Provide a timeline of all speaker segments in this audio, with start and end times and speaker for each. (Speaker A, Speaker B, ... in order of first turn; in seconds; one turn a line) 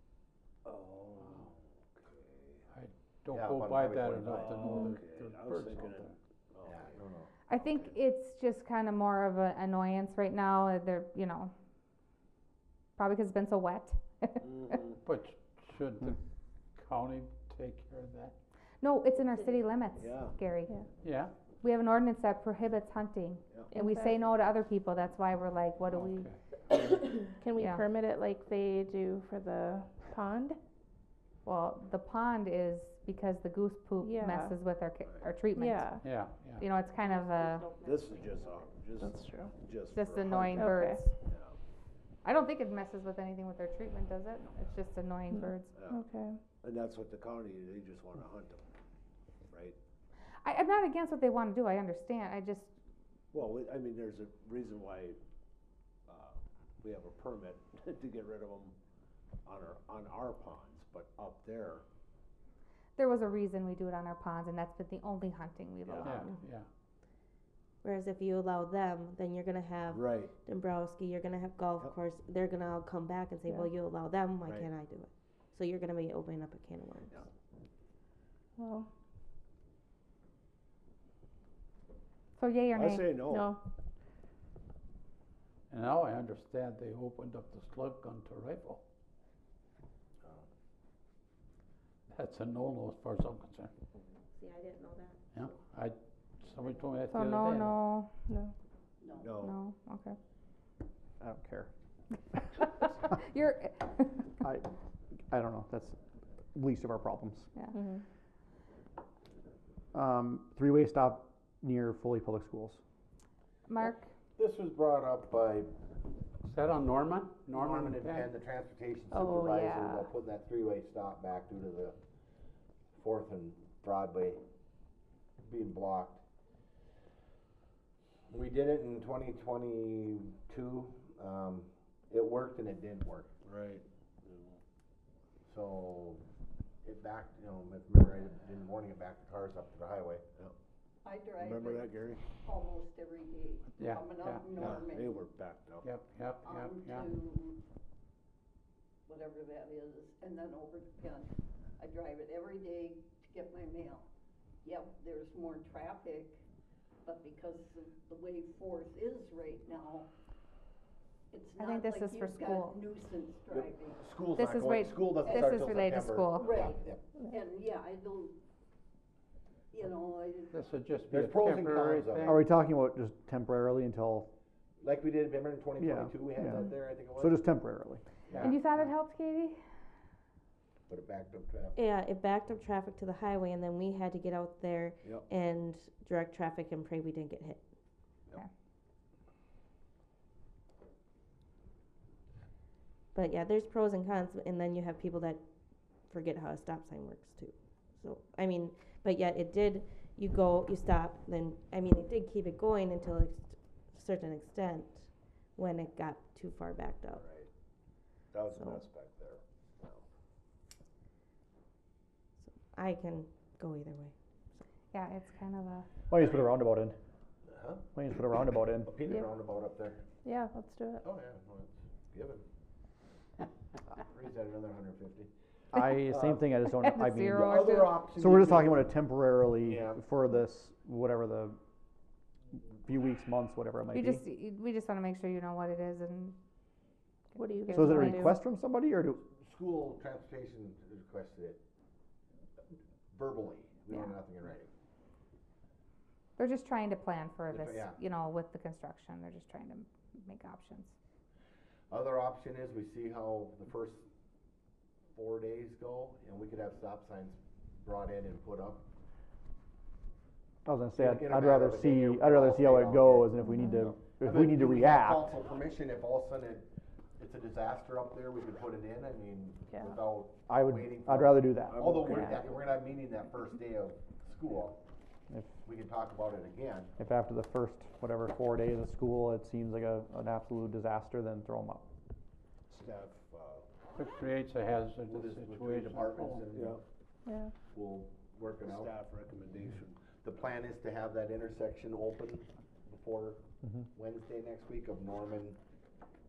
Speaker A: 0.7-2.7
Speaker B: 2.7-6.2
Speaker C: 3.3-4.7
Speaker A: 4.3-7.0
Speaker C: 6.7-7.3
Speaker D: 7.5-11.5
Speaker A: 7.6-7.9
Speaker D: 13.0-14.8
Speaker A: 14.4-15.0
Speaker B: 15.0-16.2
Speaker B: 16.8-18.3
Speaker D: 18.8-20.7
Speaker A: 20.0-20.4
Speaker B: 21.0-21.3
Speaker D: 21.6-26.3
Speaker E: 23.7-24.1
Speaker B: 25.9-26.4
Speaker E: 27.0-30.6
Speaker D: 27.6-27.9
Speaker D: 31.4-37.7
Speaker E: 34.0-34.6
Speaker E: 35.5-36.0
Speaker B: 36.0-36.6
Speaker A: 37.8-41.6
Speaker C: 38.0-38.5
Speaker E: 39.0-39.5
Speaker D: 39.9-41.1
Speaker E: 40.5-41.1
Speaker D: 42.2-45.8
Speaker E: 45.3-46.4
Speaker A: 45.7-46.0
Speaker A: 46.6-48.6
Speaker A: 49.5-49.8
Speaker D: 50.5-52.7
Speaker A: 53.3-55.2
Speaker A: 56.1-58.8
Speaker A: 59.5-61.9
Speaker D: 63.0-66.3
Speaker A: 65.9-66.2
Speaker B: 66.0-66.7
Speaker F: 67.8-77.2
Speaker A: 69.9-70.3
Speaker E: 78.6-78.9
Speaker D: 82.4-83.2
Speaker A: 82.7-83.6
Speaker E: 83.3-83.6
Speaker B: 85.7-88.8
Speaker B: 92.1-93.7
Speaker F: 94.4-95.2
Speaker B: 95.3-97.8
Speaker D: 97.1-98.1
Speaker E: 98.3-98.5
Speaker G: 99.0-99.4
Speaker A: 99.2-99.6
Speaker D: 99.4-100.2
Speaker H: 101.2-101.7
Speaker D: 102.9-104.2
Speaker H: 104.4-104.7
Speaker H: 105.3-106.0
Speaker H: 106.5-107.5
Speaker E: 107.7-108.0
Speaker H: 109.9-112.8
Speaker D: 113.7-114.1
Speaker C: 114.4-115.7
Speaker B: 116.5-118.3
Speaker C: 117.5-122.0
Speaker E: 119.1-120.0
Speaker C: 123.0-124.4
Speaker C: 125.4-126.2
Speaker C: 128.3-133.3
Speaker A: 133.4-134.6
Speaker C: 135.5-136.2
Speaker C: 136.8-140.2
Speaker G: 141.0-145.3
Speaker A: 141.4-142.2
Speaker B: 143.8-144.5
Speaker A: 144.6-145.9
Speaker B: 145.8-147.1
Speaker G: 146.4-147.6
Speaker G: 149.1-154.1
Speaker G: 154.6-156.4
Speaker G: 157.0-160.1
Speaker G: 161.3-164.1
Speaker D: 161.6-162.8
Speaker C: 163.5-167.0
Speaker D: 164.4-166.4
Speaker G: 165.2-165.7
Speaker G: 166.3-168.4
Speaker G: 169.7-170.7
Speaker B: 170.5-172.3
Speaker C: 171.1-172.4
Speaker H: 172.2-174.3
Speaker C: 174.8-177.4
Speaker H: 175.8-178.0
Speaker C: 178.3-178.5
Speaker B: 178.3-178.8
Speaker D: 178.4-179.6
Speaker C: 180.9-181.8
Speaker F: 181.8-187.6
Speaker F: 193.1-195.4
Speaker F: 196.1-207.2
Speaker A: 207.2-207.5
Speaker A: 208.3-210.0
Speaker F: 212.7-214.1
Speaker D: 214.9-215.9
Speaker H: 216.1-217.0
Speaker C: 217.5-217.8
Speaker H: 217.9-219.0
Speaker C: 218.8-220.0
Speaker E: 220.2-221.0
Speaker C: 221.0-222.4
Speaker C: 224.0-225.3
Speaker H: 225.7-231.6
Speaker D: 226.7-228.0
Speaker C: 227.3-228.9
Speaker C: 229.7-230.0
Speaker H: 232.5-234.2
Speaker D: 233.9-236.4
Speaker E: 237.3-238.4
Speaker D: 237.6-238.4
Speaker H: 237.7-239.2
Speaker C: 239.4-241.6
Speaker C: 243.1-244.7
Speaker D: 246.4-250.9
Speaker C: 247.5-248.0
Speaker C: 251.9-254.0
Speaker C: 255.2-258.8
Speaker H: 260.7-265.3
Speaker C: 261.0-263.4
Speaker E: 263.4-263.9
Speaker C: 264.2-274.8
Speaker H: 270.5-272.2
Speaker A: 271.7-272.6
Speaker H: 275.3-275.6
Speaker C: 275.6-276.9
Speaker H: 277.0-281.9
Speaker A: 282.7-283.7
Speaker B: 283.9-286.5
Speaker C: 285.1-286.8
Speaker A: 286.5-286.8
Speaker E: 287.3-287.5
Speaker C: 287.7-288.9
Speaker A: 288.5-290.1
Speaker C: 290.1-293.4
Speaker C: 293.9-295.6